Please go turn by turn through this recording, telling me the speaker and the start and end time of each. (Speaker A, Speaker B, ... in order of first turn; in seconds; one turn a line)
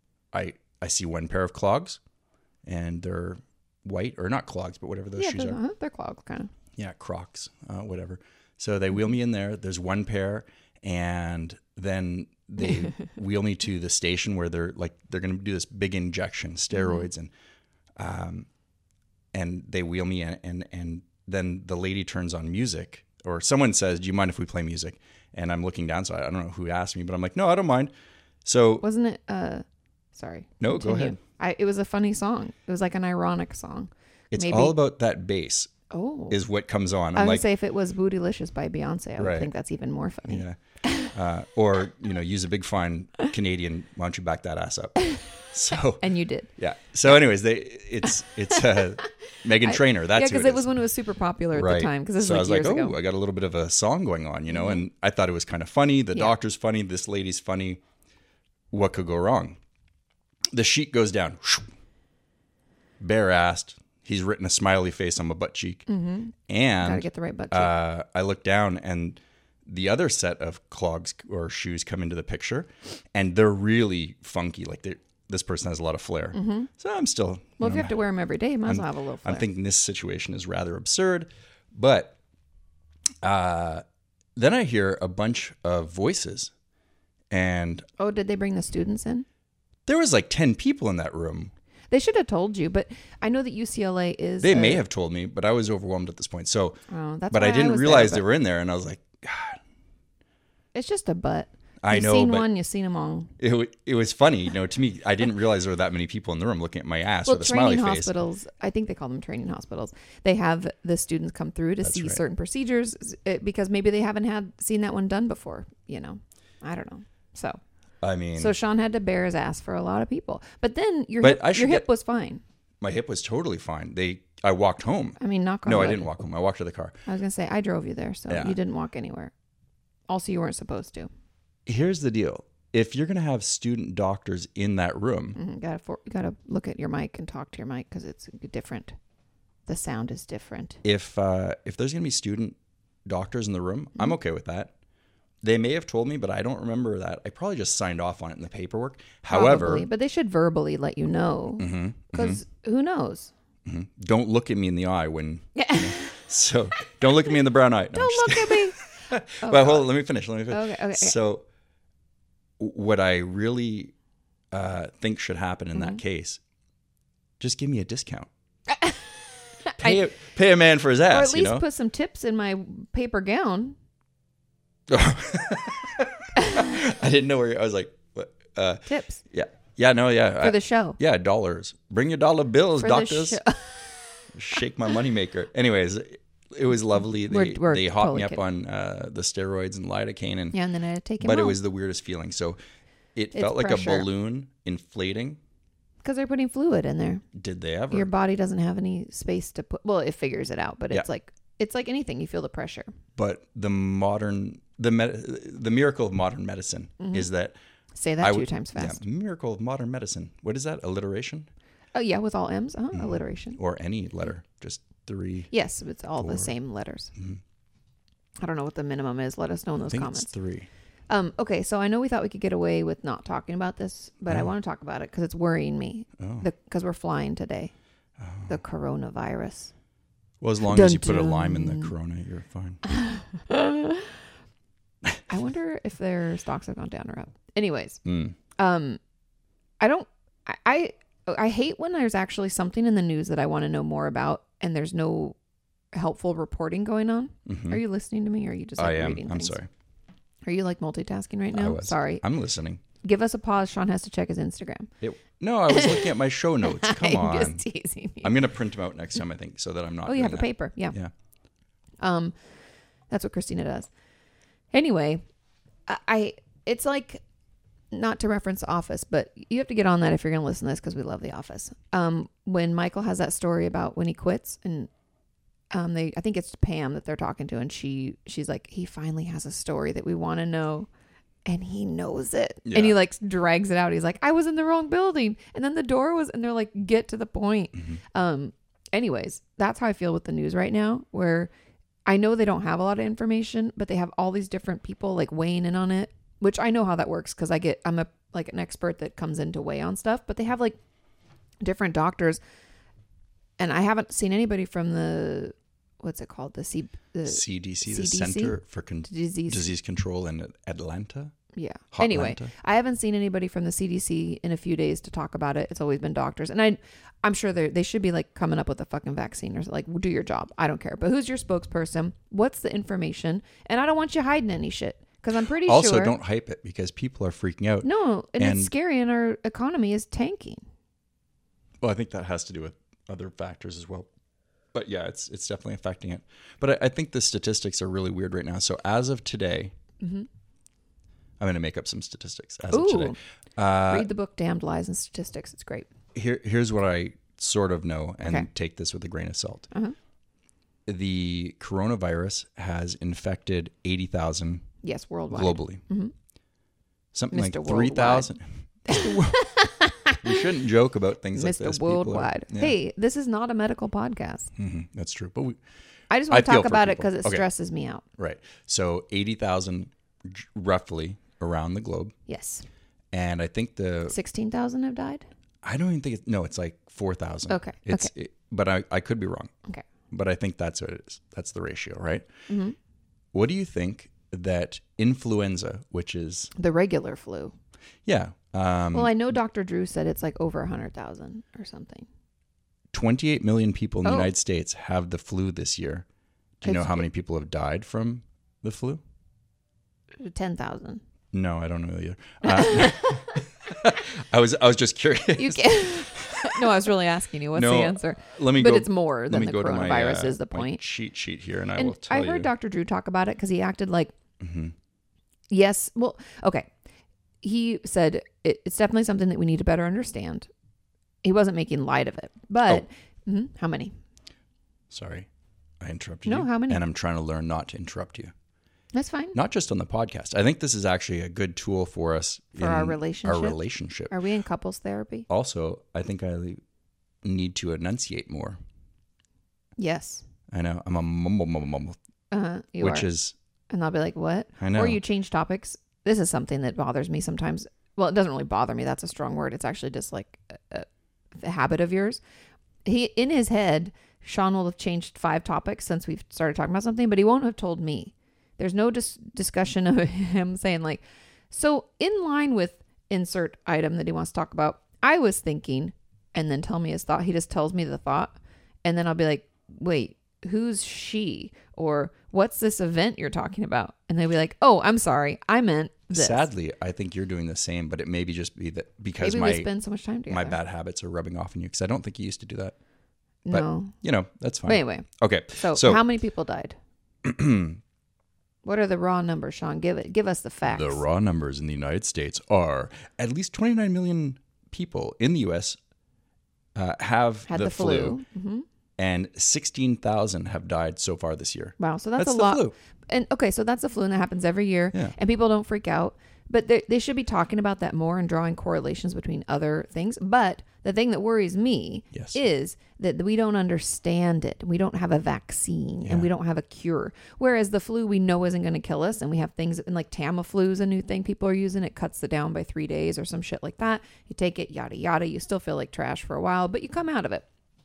Speaker A: 0.3-2.0
Speaker A: 2.6-5.6
Speaker B: 5.2-6.5
Speaker A: 6.8-17.3
Speaker B: 16.7-17.1
Speaker A: 18.0-18.5
Speaker A: 19.3-27.9
Speaker A: 28.4-28.9
Speaker B: 28.8-29.6
Speaker B: 30.1-34.8
Speaker A: 30.6-31.2
Speaker A: 34.3-35.7
Speaker B: 35.9-36.4
Speaker A: 36.3-37.5
Speaker B: 37.1-41.1
Speaker A: 39.2-39.5
Speaker A: 40.3-50.8
Speaker B: 46.0-46.5
Speaker B: 49.6-53.0
Speaker A: 51.5-57.8
Speaker B: 54.5-54.8
Speaker A: 58.7-59.6
Speaker A: 60.5-61.7
Speaker A: 63.0-65.8
Speaker B: 65.9-67.7
Speaker A: 66.5-78.0
Speaker B: 76.3-76.7
Speaker B: 77.6-79.5
Speaker A: 78.7-82.2
Speaker A: 83.2-83.8
Speaker A: 84.4-86.5
Speaker A: 87.3-87.9
Speaker B: 88.0-89.2
Speaker A: 89.9-91.5
Speaker B: 91.9-94.8
Speaker A: 94.4-96.8
Speaker B: 96.9-98.2
Speaker A: 97.3-99.6
Speaker B: 100.7-103.3
Speaker A: 101.8-102.5
Speaker A: 103.4-108.1
Speaker B: 107.2-117.6
Speaker A: 111.8-112.2
Speaker A: 118.0-118.6
Speaker B: 118.4-122.4
Speaker A: 121.2-121.9
Speaker A: 122.8-127.0
Speaker B: 125.2-126.1
Speaker B: 127.1-129.3
Speaker A: 128.3-128.6
Speaker B: 130.1-131.1
Speaker A: 131.7-135.4
Speaker B: 135.4-138.9
Speaker B: 139.7-140.8
Speaker A: 140.8-144.7
Speaker A: 145.4-149.9
Speaker B: 149.3-153.3
Speaker A: 151.6-152.4
Speaker A: 153.7-161.4
Speaker B: 155.6-156.2
Speaker B: 157.9-158.8
Speaker B: 159.4-159.9
Speaker B: 160.5-161.2
Speaker A: 162.6-163.9
Speaker A: 164.5-166.4
Speaker B: 165.8-166.0
Speaker A: 167.4-168.3
Speaker B: 168.8-169.1
Speaker B: 169.6-170.0
Speaker A: 169.8-171.6
Speaker B: 171.1-173.8
Speaker A: 174.9-183.4
Speaker B: 176.4-176.7
Speaker B: 178.9-179.2
Speaker B: 180.4-181.0
Speaker B: 182.8-184.2
Speaker A: 184.3-190.6
Speaker B: 187.3-188.4
Speaker B: 190.5-191.6
Speaker A: 191.2-192.6
Speaker A: 193.2-195.4
Speaker B: 193.3-194.1
Speaker B: 196.0-197.2
Speaker A: 197.3-198.1
Speaker B: 197.9-202.9
Speaker A: 203.2-207.6
Speaker B: 207.0-207.3
Speaker B: 207.9-209.0
Speaker A: 208.2-211.5
Speaker B: 211.9-213.6
Speaker A: 212.9-215.5
Speaker B: 215.5-217.1
Speaker A: 216.2-216.5
Speaker A: 217.2-217.4
Speaker B: 218.4-220.3
Speaker A: 219.9-220.7
Speaker B: 221.1-227.7
Speaker A: 226.2-226.5
Speaker A: 228.2-228.6
Speaker B: 228.5-229.7
Speaker A: 230.4-232.8
Speaker B: 230.6-231.9
Speaker B: 232.9-234.1
Speaker B: 235.3-238.0
Speaker A: 238.1-238.4
Speaker B: 238.6-239.0
Speaker B: 239.8-245.4
Speaker B: 245.9-249.6
Speaker A: 247.5-247.8
Speaker A: 248.8-249.7
Speaker B: 250.4-252.2
Speaker A: 251.5-252.8
Speaker B: 253.0-254.9
Speaker A: 255.0-257.6
Speaker B: 255.7-258.3
Speaker A: 258.2-261.1
Speaker B: 260.1-261.0
Speaker B: 262.0-262.3
Speaker B: 263.1-263.9
Speaker B: 264.7-265.2
Speaker B: 265.9-267.2
Speaker B: 267.9-274.9
Speaker B: 275.7-280.9
Speaker B: 281.5-291.5
Speaker A: 282.7-283.0
Speaker B: 292.1-300.8
Speaker B: 301.6-302.4
Speaker B: 303.6-309.7
Speaker A: 307.2-311.3
Speaker B: 311.5-326.2
Speaker A: 311.9-312.5
Speaker A: 325.6-328.7
Speaker B: 327.8-330.6
Speaker A: 331.8-334.1
Speaker A: 334.7-339.7
Speaker B: 340.0-340.3
Speaker A: 341.4-344.1
Speaker B: 342.7-343.2
Speaker B: 343.9-345.9
Speaker A: 346.1-349.7
Speaker A: 350.9-354.7
Speaker B: 354.8-356.1
Speaker A: 355.3-355.8
Speaker A: 357.1-359.4
Speaker B: 357.3-358.3
Speaker B: 358.9-360.4
Speaker A: 360.2-362.8
Speaker B: 361.3-364.5
Speaker A: 364.6-365.6
Speaker B: 366.1-368.0
Speaker A: 366.3-367.4
Speaker A: 368.2-372.1
Speaker B: 372.3-372.6
Speaker A: 373.1-374.2
Speaker B: 374.1-375.2
Speaker A: 375.6-379.5
Speaker B: 377.5-378.1
Speaker A: 380.1-382.3
Speaker B: 382.5-382.8
Speaker A: 383.3-386.5
Speaker B: 386.6-387.5
Speaker A: 388.1-389.1
Speaker B: 388.9-392.1
Speaker A: 392.9-396.1
Speaker B: 394.0-394.3
Speaker A: 396.6-399.0
Speaker B: 396.6-397.1
Speaker B: 400.2-401.0
Speaker A: 401.3-406.9
Speaker B: 402.4-403.4
Speaker B: 405.4-410.8
Speaker A: 407.5-412.5
Speaker B: 411.8-414.1
Speaker A: 414.4-414.7
Speaker B: 415.5-416.7
Speaker B: 417.4-420.5
Speaker B: 421.2-423.9
Speaker A: 424.9-425.3
Speaker A: 425.8-428.3
Speaker B: 426.2-426.8
Speaker B: 428.9-429.4
Speaker A: 429.3-434.1
Speaker B: 432.6-433.6
Speaker B: 434.1-435.3
Speaker A: 435.3-436.6
Speaker A: 437.2-438.6
Speaker B: 439.8-440.2
Speaker A: 440.5-442.0
Speaker B: 442.3-443.1
Speaker A: 442.8-443.4
Speaker B: 443.7-452.2
Speaker A: 444.6-445.0
Speaker B: 452.9-476.5
Speaker A: 476.1-479.7
Speaker B: 479.2-480.6
Speaker A: 480.3-482.8
Speaker B: 483.5-483.9
Speaker A: 483.5-486.0
Speaker B: 484.6-485.1
Speaker B: 485.6-486.8
Speaker A: 487.2-487.8
Speaker B: 488.6-491.0
Speaker A: 490.6-495.8
Speaker A: 496.8-498.2
Speaker B: 497.5-498.6
Speaker A: 499.0-502.7
Speaker B: 501.8-527.5
Speaker A: 512.1-512.4
Speaker A: 516.0-516.3